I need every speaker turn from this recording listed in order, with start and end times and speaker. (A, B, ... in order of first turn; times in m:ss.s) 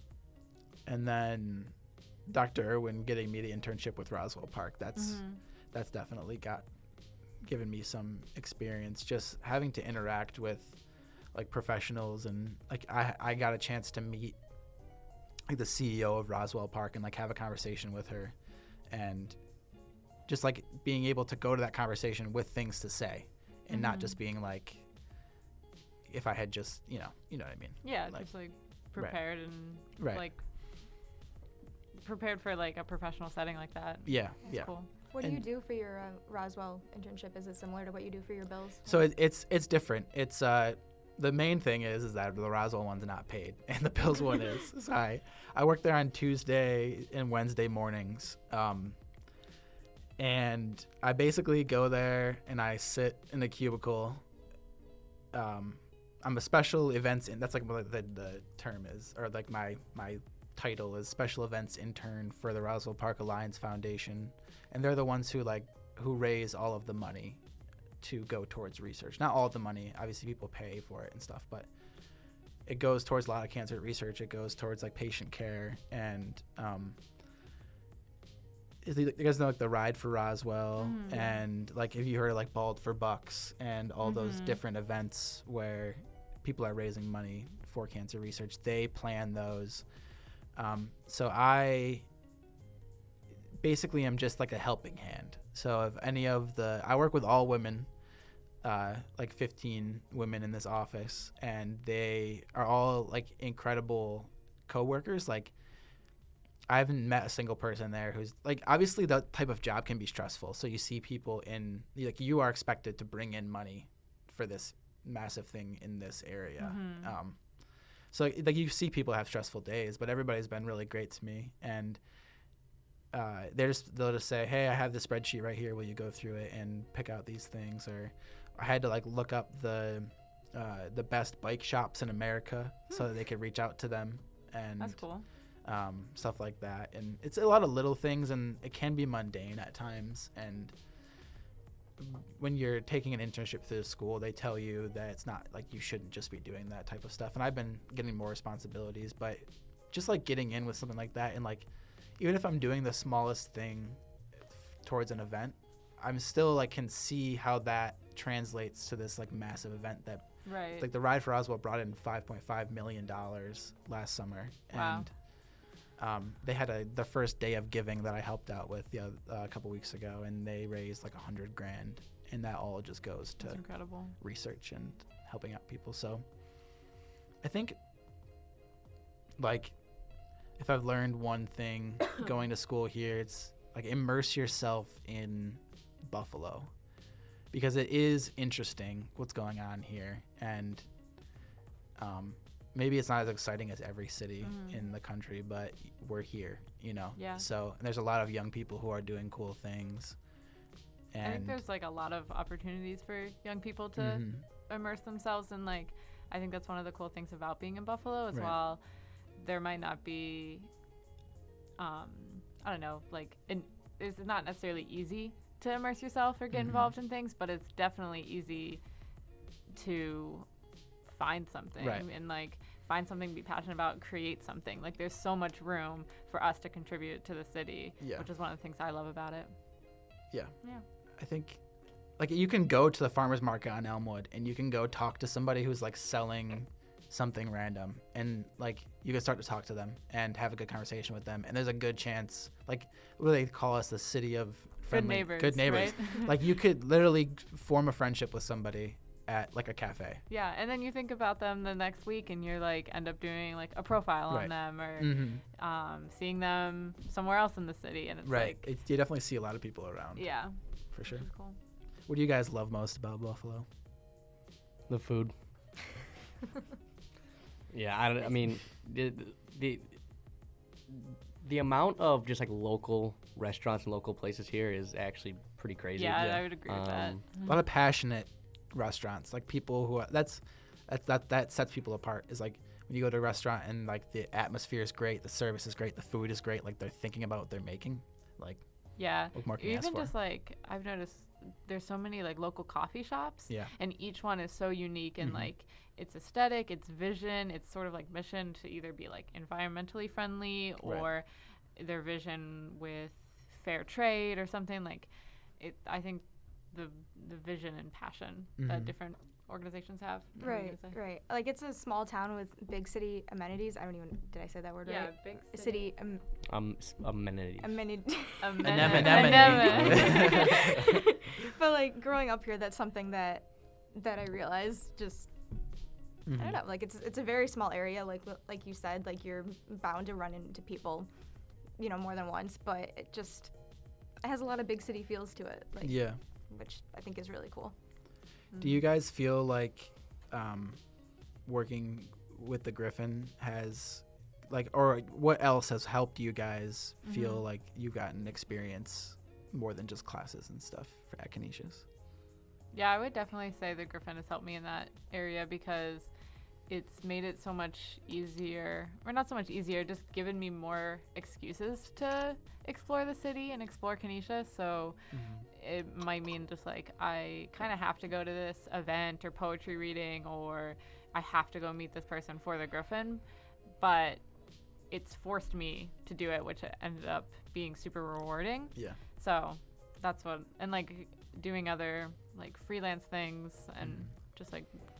0:00.8-0:06.7 A
0:05.0-0:05.4 B
0:07.4-0:14.4 A
0:15.5-0:19.4 A
0:20.2-0:24.9 A
0:23.7-0:24.2 B
0:26.0-0:28.3 A
0:27.8-0:30.4 B
0:28.9-0:30.2 A
0:32.0-0:34.9 B
0:34.0-0:35.4 A
0:35.1-0:38.9 C
0:38.8-0:49.0 A
0:50.2-0:54.2 A
0:55.3-1:07.4 A
1:08.0-1:11.7 A
1:12.6-1:17.0 A
1:18.8-1:29.9 A
1:20.8-1:21.4 B
1:24.0-1:24.6 B
1:30.5-1:32.0 A
1:33.6-1:37.9 A
1:38.6-1:45.5 A
1:46.7-1:57.4 A
1:56.6-1:57.1 B
1:58.1-2:02.0 A
2:03.1-2:15.0 A
2:14.8-2:15.2 B
2:15.6-2:20.8 A
2:22.0-2:56.9 A
2:40.4-2:40.9 B
2:44.7-2:45.1 B
2:53.4-2:54.2 B
2:57.4-2:57.8 A
2:59.4-3:06.8 A
3:07.5-3:10.9 A
3:12.0-3:20.3 A
3:14.4-3:14.8 B
3:17.2-3:17.4 B
3:21.1-3:21.6 A
3:21.2-3:28.8 B
3:24.0-3:24.4 A
3:29.3-3:30.7 B
3:31.8-3:38.8 B
3:36.5-3:36.9 A
3:39.7-3:40.5 B
3:41.0-3:49.5 B
3:41.8-3:42.1 A
3:48.0-3:48.2 A
3:51.1-3:51.6 A
3:52.2-4:10.2 A
4:04.9-4:06.4 B
4:10.3-4:18.6 B
4:14.3-4:15.4 A
4:18.2-4:20.3 A
4:20.2-4:21.6 B
4:20.9-4:21.3 A
4:22.1-4:23.6 A
4:24.9-4:25.3 D
4:27.7-4:30.0 D
4:30.9-4:37.2 D
4:36.0-4:37.5 B
4:37.4-4:50.1 A
4:49.0-5:11.0 B
4:55.2-4:55.5 A
5:08.6-5:08.9 A
5:10.4-5:16.2 C
5:14.8-5:15.9 B
5:16.4-5:18.2 D
5:17.6-5:31.1 C
5:18.4-5:20.6 B
5:18.6-5:20.6 A
5:18.8-5:20.6 D
5:26.2-5:26.6 A
5:31.8-5:37.7 C
5:35.8-5:36.2 A
5:38.6-5:40.8 A
5:41.4-5:51.8 A
5:47.0-5:47.4 B
5:52.7-5:56.1 B
5:56.7-6:05.0 B
6:05.1-6:05.4 A
6:05.5-6:13.2 B
6:13.8-6:14.3 B
6:14.9-6:24.7 B
6:23.8-6:24.1 A